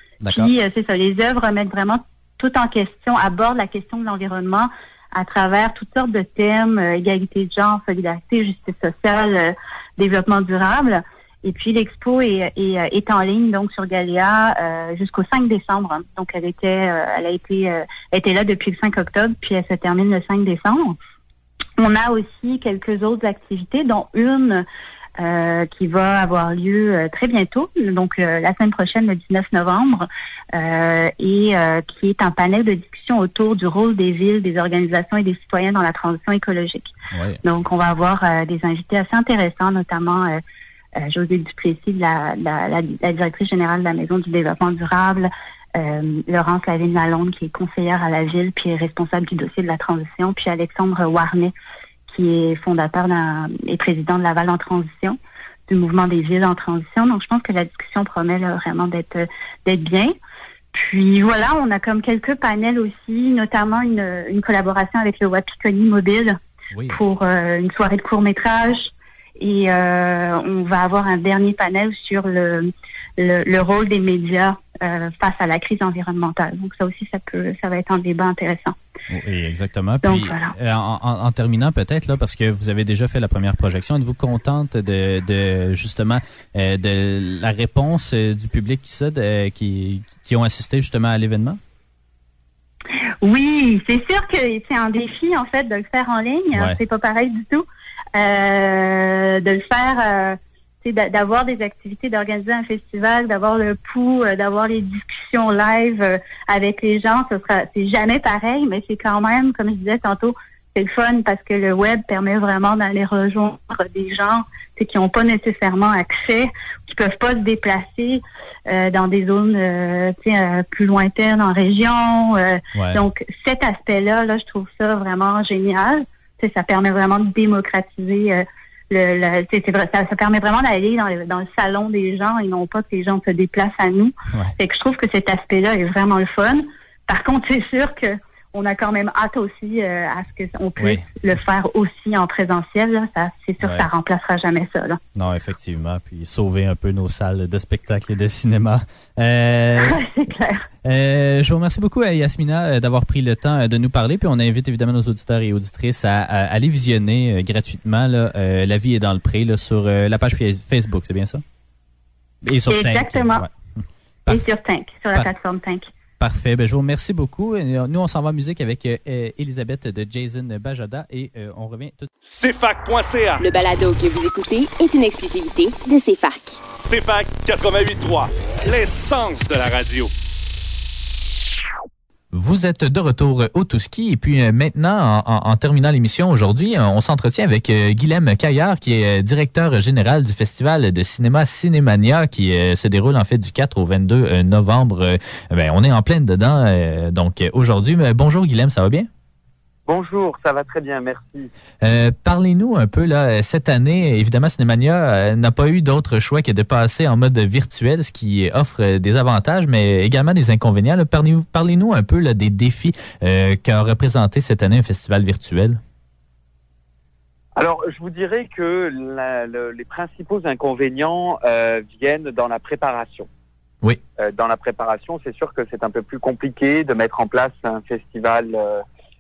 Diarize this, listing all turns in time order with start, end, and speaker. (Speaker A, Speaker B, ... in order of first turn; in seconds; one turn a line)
Speaker A: 0.2-0.5
Speaker B: 0.3-21.0
Speaker B: 21.8-24.6
Speaker B: 25.2-36.9
Speaker A: 37.1-37.4
Speaker B: 37.4-40.4
Speaker B: 41.0-51.5
Speaker B: 52.1-55.2
Speaker B: 55.7-60.1
Speaker B: 60.7-78.8
Speaker A: 79.1-91.6
Speaker B: 80.0-80.5
Speaker B: 93.2-97.7
Speaker A: 96.5-96.8
Speaker B: 98.2-145.0
Speaker A: 122.8-123.0
Speaker A: 140.8-141.0
Speaker A: 143.6-143.9
Speaker A: 145.2-150.0
Speaker B: 149.8-150.7
Speaker A: 150.8-161.4
Speaker A: 162.4-163.5
Speaker B: 162.7-163.4
Speaker B: 164.3-165.8
Speaker A: 166.2-172.1
Speaker C: 172.3-173.4
Speaker D: 173.4-176.6
Speaker C: 176.7-180.1
Speaker A: 182.3-199.1
Speaker E: 199.9-201.5
Speaker A: 201.8-215.8
Speaker E: 217.6-223.3
Speaker E: 224.2-228.8